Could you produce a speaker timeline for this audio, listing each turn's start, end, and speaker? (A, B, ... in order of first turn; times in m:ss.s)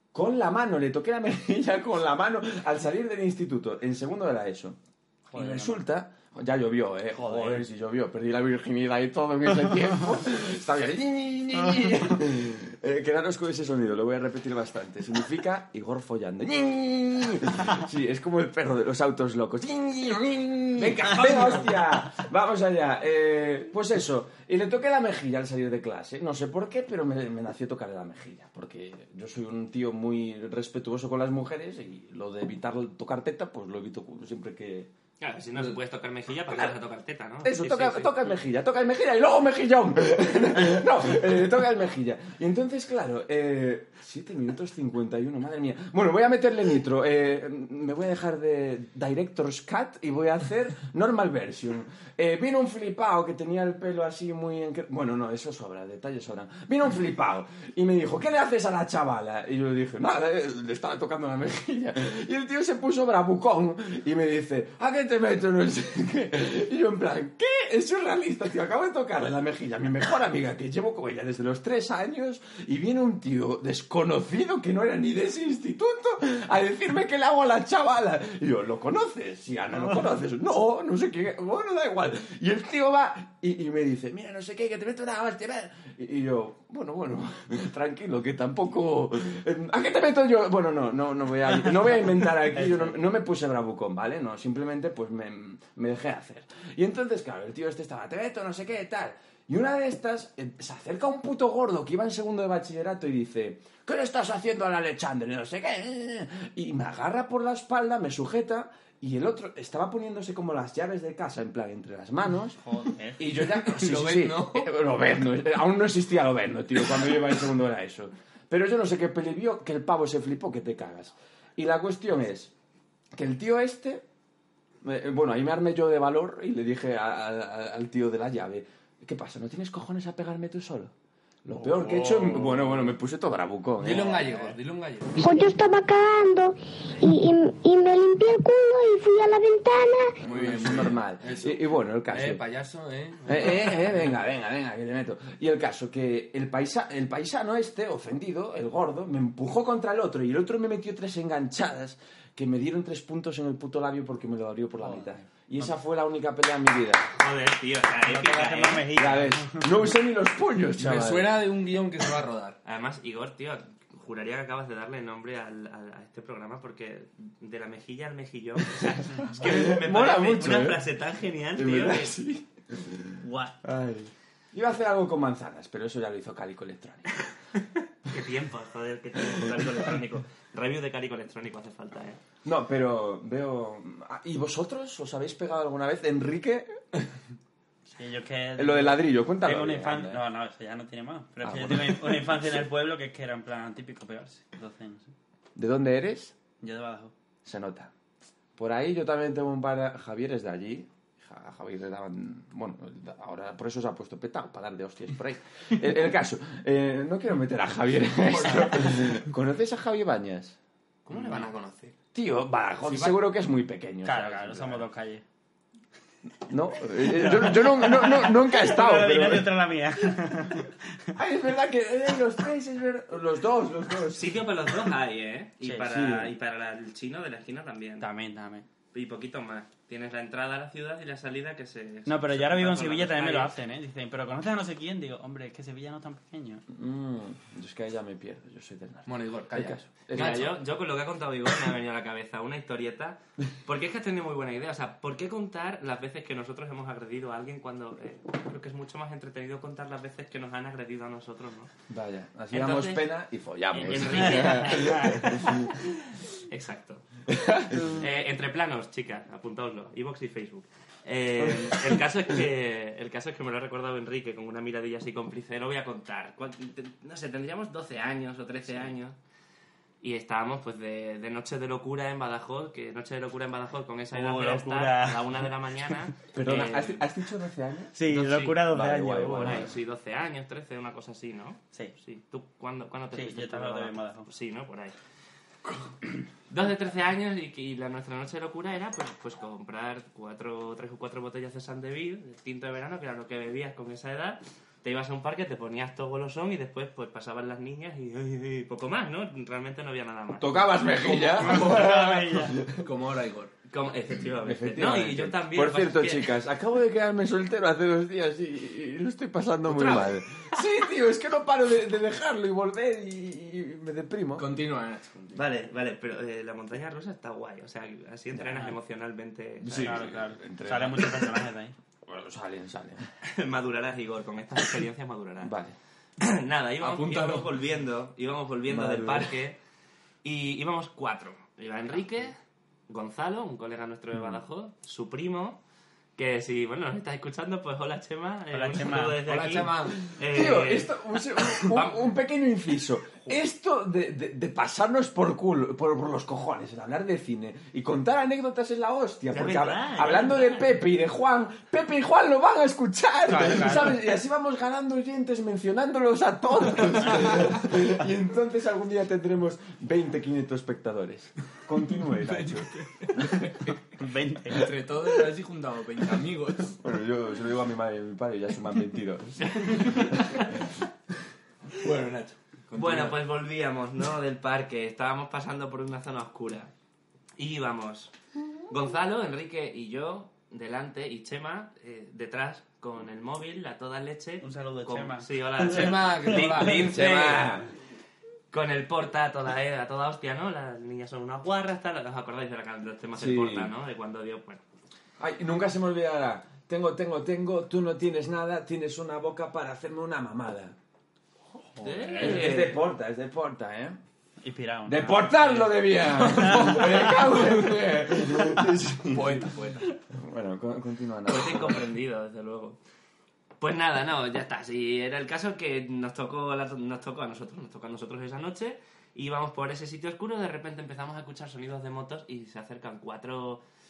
0:00.1-0:04.8 A
0:05.3-0:05.8 B
0:05.3-0:34.9 A
0:07.2-0:07.6 B
0:20.8-0:21.8 C
0:35.2-0:38.3 D
0:37.4-1:52.6 A
1:52.6-1:53.2 B
1:53.2-2:02.5 A
1:53.4-1:54.7 C
2:03.2-2:04.0 A
2:04.8-2:10.9 A
2:11.4-2:14.5 A
2:11.8-2:12.3 B
2:13.8-2:15.5 C
2:15.2-2:20.2 E
2:20.2-2:22.4 A
2:20.2-2:24.1 C
2:23.3-2:37.1 A
2:34.8-2:35.7 B
2:37.1-2:39.0 D
2:38.0-2:39.8 B
2:38.9-2:41.4 A
2:40.8-2:42.6 C
2:42.6-2:52.2 D
2:49.4-2:50.8 A
2:51.6-2:57.2 A
2:53.2-2:53.6 D
2:58.1-3:02.2 D
3:02.4-3:06.7 A
3:07.9-3:15.1 B
3:08.6-3:10.2 A
3:11.4-3:12.2 A
3:15.6-3:16.4 A
3:16.6-3:17.1 B
3:17.4-3:17.9 A
3:18.6-3:30.6 A
3:28.1-3:29.2 C
3:31.0-3:32.0 C
3:32.1-3:34.8 A
3:32.8-3:33.2 C
3:34.0-3:35.2 B
3:36.5-3:39.6 A
3:37.0-3:41.0 B
3:41.2-3:44.3 A
3:44.1-3:48.1 D
3:45.8-3:46.3 A
3:48.0-3:48.7 B
3:48.9-3:53.5 D
3:52.1-3:56.6 B
3:56.7-4:00.6 A
3:59.1-4:00.5 C
4:00.1-4:11.7 D
4:11.9-4:15.7 A
4:12.5-4:13.1 D
4:13.7-4:17.2 D
4:14.0-4:15.5 B
4:17.3-4:17.9 A
4:17.8-4:29.2 D
4:21.4-4:21.8 A
4:30.0-4:37.0 D
4:34.1-4:35.4 B
4:36.3-4:38.0 A
4:38.0-4:39.7 B
4:38.1-4:38.6 D
4:38.7-4:39.7 A
4:39.4-4:45.0 D
4:43.1-4:44.3 B
4:46.5-5:00.8 D
5:00.4-5:02.8 A
5:01.0-5:02.7 B
5:01.4-5:01.8 C
5:02.8-5:03.5 C
5:03.7-5:06.4 D
5:04.4-5:14.5 A
5:09.7-5:10.2 C
5:14.4-5:15.4 C
5:15.3-5:20.2 D
5:18.4-5:18.8 B
5:19.6-5:21.4 A
5:19.7-5:21.8 B
5:22.0-5:23.1 A
5:23.2-5:25.5 D
5:25.4-5:25.8 A
5:26.2-5:29.6 D
5:26.8-5:27.5 C
5:28.7-5:29.3 A
5:30.2-5:32.4 D
5:32.9-5:35.6 D
5:36.2-5:42.1 D
5:38.5-5:39.2 B
5:39.2-5:40.0 C
5:40.0-6:02.7 A
5:49.3-5:50.8 D
5:53.3-5:54.0 C
6:02.2-6:03.8 C
6:04.0-6:04.7 B
6:04.5-6:06.8 C
6:06.8-6:10.0 A
6:09.4-6:10.5 D
6:09.7-6:10.0 C
6:11.7-6:13.2 C
6:12.8-6:16.7 D
6:17.4-6:18.1 D
6:18.7-6:27.3 D
6:24.4-6:26.4 B
6:25.6-6:27.5 C
6:26.6-6:27.7 A
6:28.5-6:34.6 D
6:33.2-6:33.7 A
6:35.2-6:40.8 A
6:41.8-6:42.6 B
6:41.8-6:42.8 D
6:42.2-6:44.0 A
6:44.4-6:46.7 B
6:44.9-6:49.5 A
6:46.4-6:47.6 C
6:48.4-6:50.0 C
6:50.1-6:51.8 A
6:51.3-6:52.8 D
6:53.6-7:03.6 D